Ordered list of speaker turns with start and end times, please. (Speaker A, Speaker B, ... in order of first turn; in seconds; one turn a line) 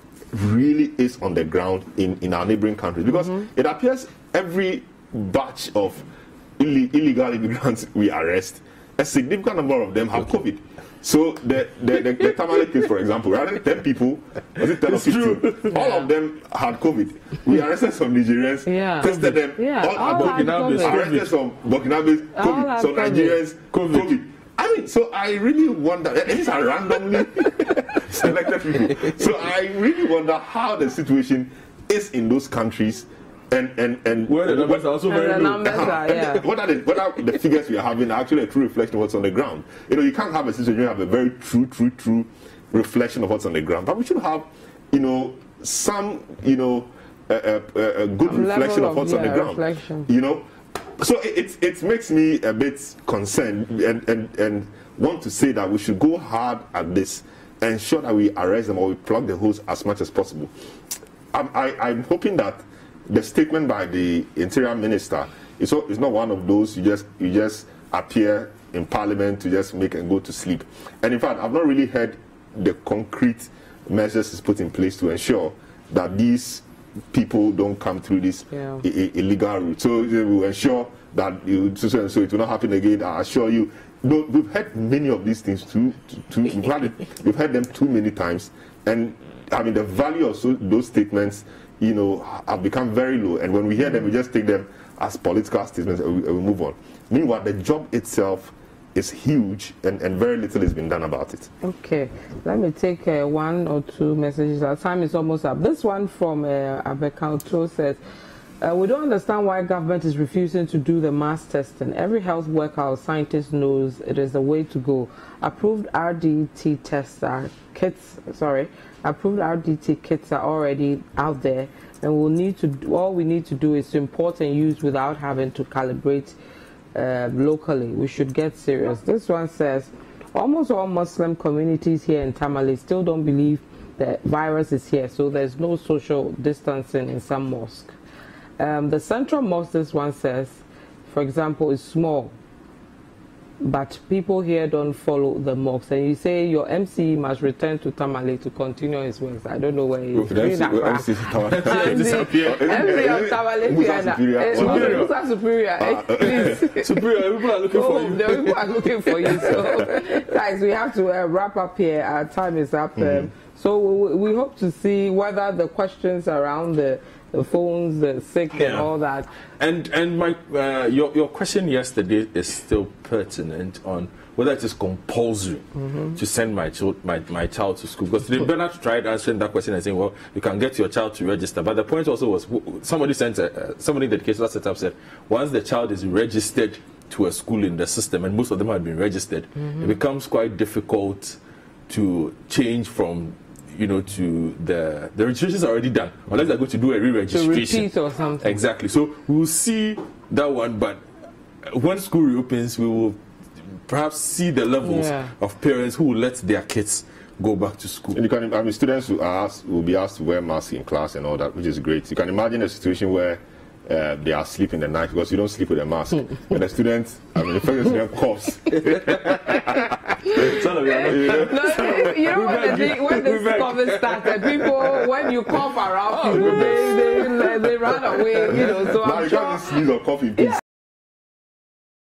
Speaker A: 0.3-34.9
Speaker B: 14.6-15.7
Speaker C: 18.7-21.1
Speaker B: 19.9-21.3
Speaker C: 22.4-23.4
Speaker B: 23.7-24.1
Speaker B: 28.9-29.2
Speaker B: 34.3-36.0
Speaker C: 35.1-36.5
Speaker A: 35.6-60.5
Speaker C: 48.2-50.1
Speaker A: 61.3-101.5
Speaker C: 101.6-108.0
Speaker C: 108.6-126.4
Speaker C: 127.0-137.9
Speaker C: 138.6-142.3
Speaker C: 143.6-169.3
Speaker B: 150.1-152.9
Speaker A: 150.3-155.1
Speaker B: 154.5-155.1
Speaker A: 155.8-156.6
Speaker B: 156.2-159.8
Speaker B: 168.5-168.9
Speaker B: 169.6-191.4
Speaker B: 191.9-201.0
Speaker C: 197.3-198.6
Speaker B: 201.6-203.2
Speaker B: 203.9-208.2
Speaker C: 204.8-205.3
Speaker A: 208.1-219.8
Speaker B: 218.8-225.2
Speaker C: 220.2-229.7
Speaker B: 226.1-228.8
Speaker A: 228.8-230.6